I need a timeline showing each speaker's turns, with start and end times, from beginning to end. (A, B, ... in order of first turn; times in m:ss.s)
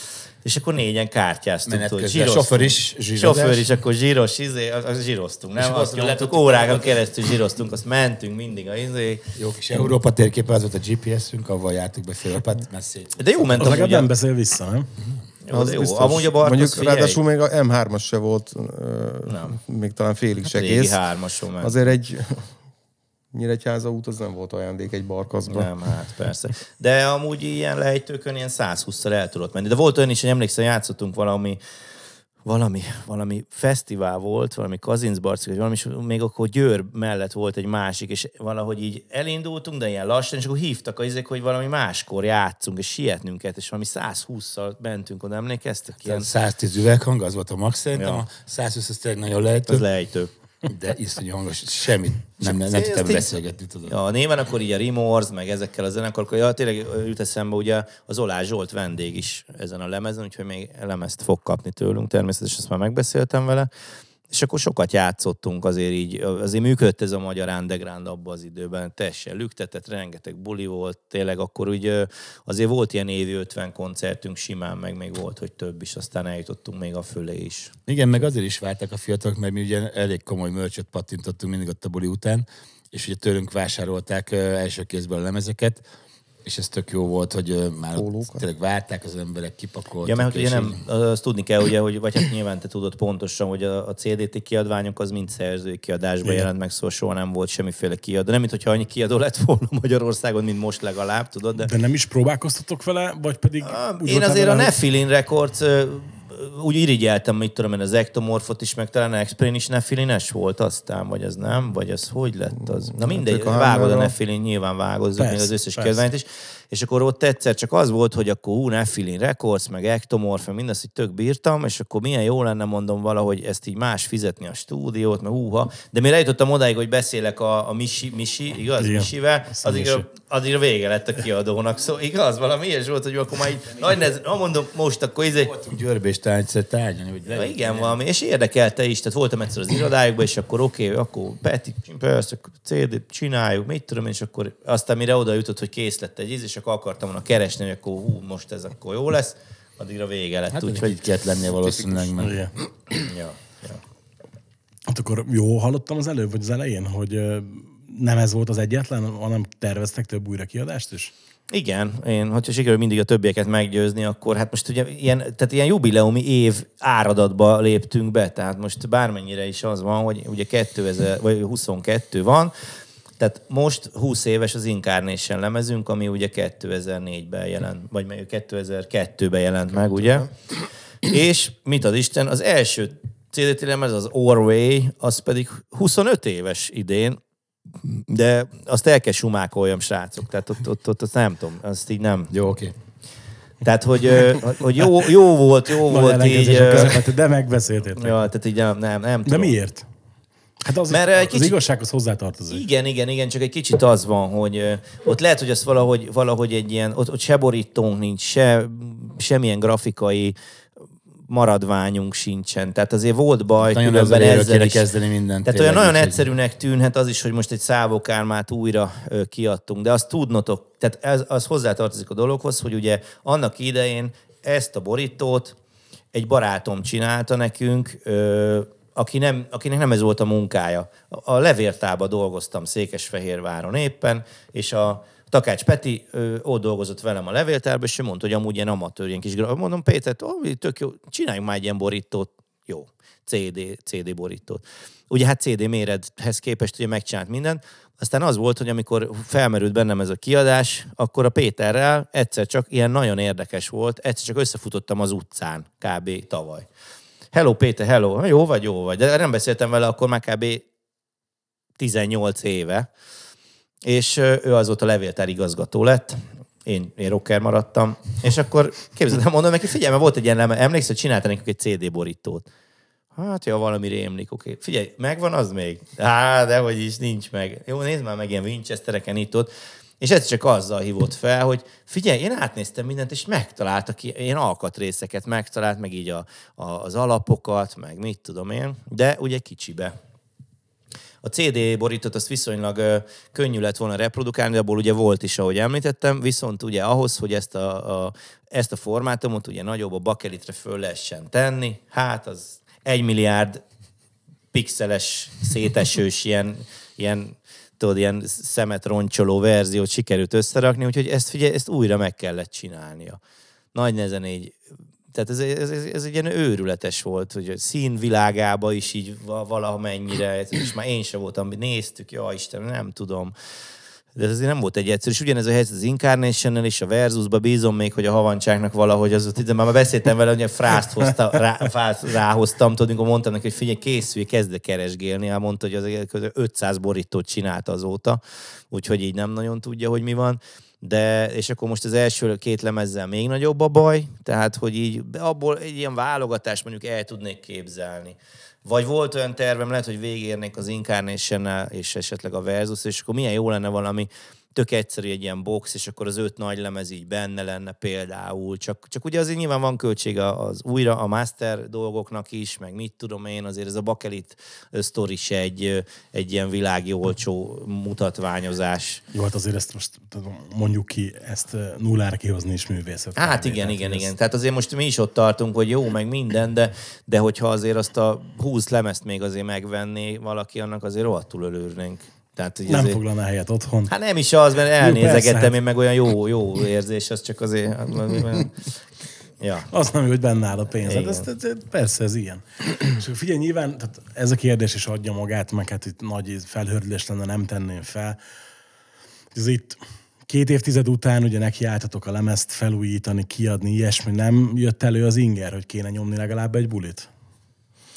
0:00.4-0:09.2 A
0:01.7-0:03.7 B
0:05.6-0:07.0 B
0:09.4-0:13.2 B
0:13.2-0:14.1 A
0:13.5-0:14.9 C
0:15.4-0:17.2 A
0:15.5-0:21.0 D
0:19.3-0:19.6 A
0:20.5-0:21.8 A
0:21.6-0:22.5 D
0:23.3-0:25.7 D
0:25.5-0:31.6 A
0:32.4-0:46.3 A
0:46.0-0:49.8 B
0:48.0-0:48.2 A
0:49.7-0:50.3 A
0:50.6-0:54.0 B
0:52.4-1:03.7 A
1:04.3-1:17.8 A
1:17.9-1:25.8 B
1:26.4-1:30.8 B
1:28.0-1:28.4 D
1:30.0-1:41.7 A
1:41.6-1:44.7 C
1:43.6-2:15.5 A
1:52.9-1:54.1 D
1:55.2-1:56.0 C
2:08.8-2:10.1 C
2:15.5-2:18.0 B
2:17.3-2:31.0 A
2:30.5-2:32.5 B
2:32.2-2:32.5 C
2:33.0-2:33.8 A
2:34.9-2:41.1 C
2:41.5-2:52.5 A
2:53.2-3:07.2 A
3:07.8-3:12.3 A
3:12.3-3:12.7 B
3:13.6-3:17.1 A
3:15.9-3:18.2 C
3:18.0-3:19.5 A
3:19.3-3:19.9 C
3:20.6-3:22.6 C
3:20.9-3:21.6 A
3:22.5-3:30.4 A
3:31.3-3:34.9 A
3:33.6-3:36.2 B
3:35.5-3:45.6 A
3:46.1-4:16.7 A
4:17.3-4:20.6 A
4:21.8-4:22.9 A
4:23.8-4:32.5 A
4:33.2-4:49.9 A
4:51.2-5:03.6 A
5:04.5-5:13.2 A
5:13.7-5:14.6 A
5:15.1-5:23.3 A
5:24.2-5:38.2 A
5:38.7-6:09.0 A
6:09.1-6:14.1 C
6:13.2-6:23.0 A
6:22.7-6:23.9 C
6:23.9-6:28.7 A
6:24.8-6:25.5 C
6:29.4-6:29.7 A
6:29.7-6:38.2 C
6:30.8-6:31.3 A
6:39.3-6:47.1 C